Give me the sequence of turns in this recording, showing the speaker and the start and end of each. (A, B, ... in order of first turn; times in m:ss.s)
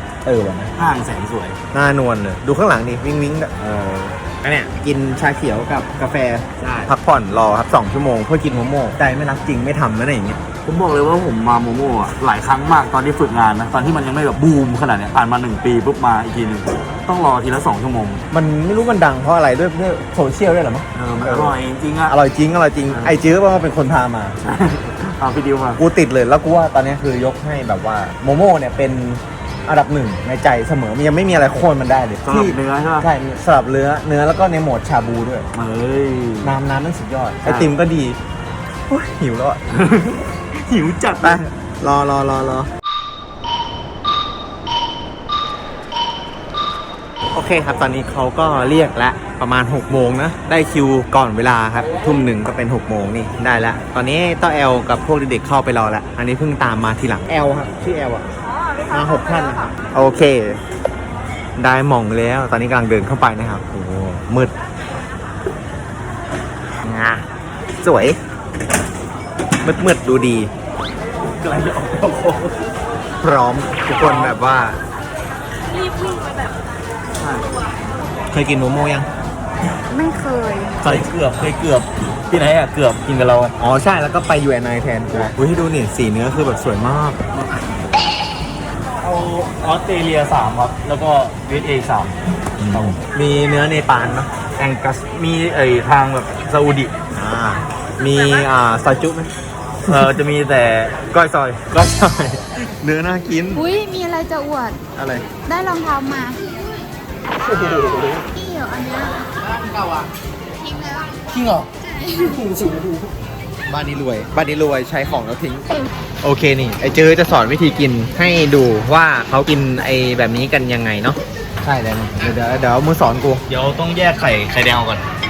0:00.2-0:00.7 A
0:00.7-0:01.6 B
0:01.7-0:03.6 A
0:03.6-0:04.1 B
0:04.2-0:10.4 A
0:06.6-0:06.9 B
0:10.6-0:18.2 B
0:18.3-0:24.4 A
0:20.9-0:22.2 B
0:24.4-0:25.8 B
0:25.8-0:35.5 A
0:32.2-0:33.1 B
0:35.5-0:36.6 B
0:36.4-0:38.2 A
0:37.4-0:37.7 B
0:38.9-0:39.6 A
0:39.7-0:41.4 B
0:41.2-0:42.7 A
0:47.3-0:58.3 A
0:58.4-0:59.9 C
0:58.9-1:00.6 A
1:01.6-1:04.5 A
1:06.8-1:07.3 A
1:07.8-1:08.2 A
1:09.6-1:10.5 A
1:11.2-1:12.7 B
1:13.2-1:14.8 A
1:14.0-1:14.3 B
1:15.8-1:16.3 C
1:17.1-1:17.5 B
1:18.3-1:19.1 A
1:19.9-1:20.8 D
1:20.8-1:21.1 A
1:20.8-1:23.5 B
1:23.6-1:27.2 A
1:29.0-1:33.0 B
1:32.7-1:34.3 A
1:34.6-1:36.9 B
1:37.1-1:39.3 A
1:39.9-1:40.2 A
1:39.9-1:41.1 B
1:41.1-1:43.6 A
1:43.5-1:44.8 D
1:44.9-1:45.3 A
1:45.4-1:46.5 D
1:47.4-1:48.2 A
1:48.3-1:49.3 D
1:50.6-1:51.2 D
1:51.8-1:52.7 D
1:53.7-1:55.7 A
1:56.2-2:03.4 A
2:03.5-2:05.0 B